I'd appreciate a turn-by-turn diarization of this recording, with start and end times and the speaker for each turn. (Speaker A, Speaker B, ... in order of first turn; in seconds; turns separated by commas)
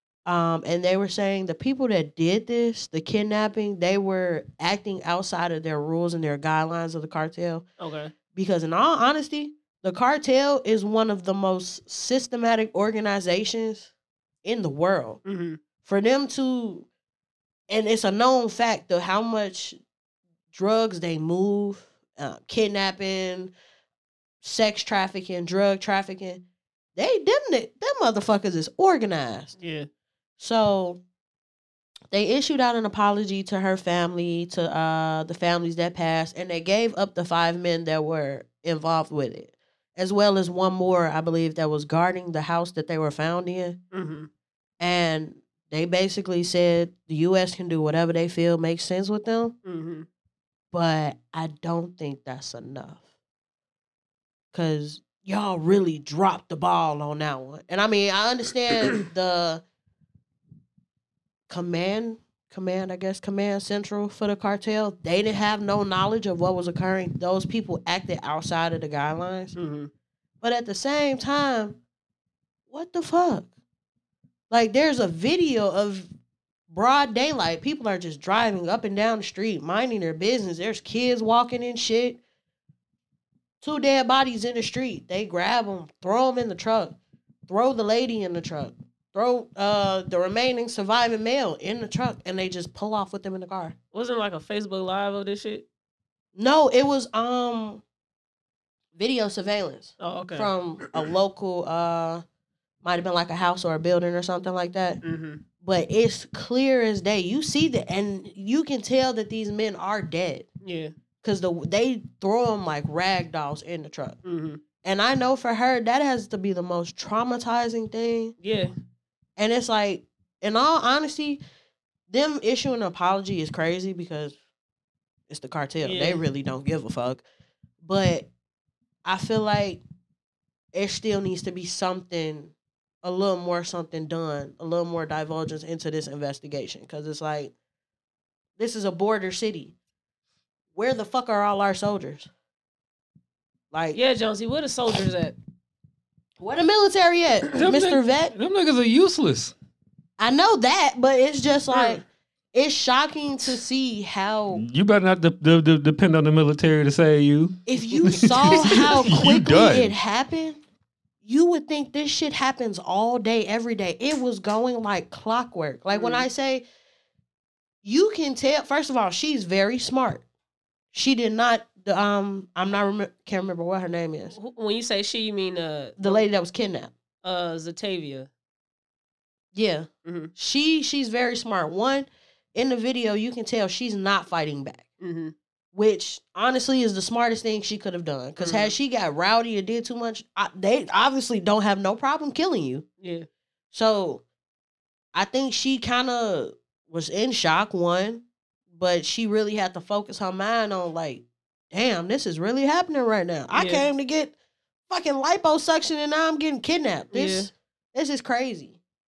Speaker A: 0.2-7.6, Speaker B: 7.8-8.1, Speaker A: 8.3-13.9, Speaker A: 14.4-15.2, Speaker B: 15.2-15.6, Speaker A: 15.8-16.9, Speaker A: 17.7-19.8, Speaker A: 20.5-23.5, Speaker A: 24.4-26.4, Speaker A: 26.9-29.6, Speaker B: 29.6-29.9, Speaker A: 30.4-31.0, Speaker A: 32.1-43.8, Speaker B: 43.9-44.3, Speaker A: 44.8-49.5, Speaker B: 49.6-50.0, Speaker A: 50.7-53.0, Speaker A: 54.5-59.6, Speaker A: 61.5-69.5, Speaker B: 69.5-69.9, Speaker A: 70.4-71.8, Speaker A: 72.7-73.5, Speaker A: 74.5-76.1, Speaker A: 76.7-82.2, Speaker A: 83.6-93.8, Speaker B: 93.9-95.7, Speaker A: 96.3-97.8, Speaker A: 98.9-102.2, Speaker B: 100.0-100.5, Speaker A: 102.8-105.0, Speaker B: 105.0-105.4, Speaker A: 105.6-110.5, Speaker B: 110.6-110.9, Speaker A: 111.2-114.2, Speaker B: 114.2-114.6, Speaker A: 114.8-118.3, Speaker B: 118.4-118.7, Speaker A: 119.4-121.4, Speaker A: 122.1-124.3, Speaker A: 125.3-127.2, Speaker B: 125.8-126.2, Speaker A: 127.8-128.3, Speaker A: 129.0-129.8, Speaker A: 130.7-137.5, Speaker A: 138.6-139.7, Speaker A: 140.7-142.3, Speaker A: 143.7-144.0, Speaker B: 143.9-145.3, Speaker A: 146.4-148.3, Speaker C: 147.5-149.5, Speaker A: 150.2-154.6, Speaker B: 151.7-152.0, Speaker C: 154.5-159.9, Speaker A: 157.7-160.6, Speaker A: 161.2-166.6, Speaker B: 165.9-166.3, Speaker A: 167.8-170.2, Speaker A: 170.9-174.3, Speaker B: 174.3-176.2, Speaker A: 176.0-176.9, Speaker B: 177.2-178.3, Speaker A: 179.5-184.8, Speaker B: 180.0-180.3, Speaker B: 185.0-185.3, Speaker A: 185.7-192.8, Speaker B: 188.4-188.7, Speaker B: 193.0-193.2, Speaker A: 193.7-194.2, Speaker A: 195.1-204.3, Speaker B: 203.5-203.9, Speaker A: 204.9-208.8, Speaker B: 207.1-207.5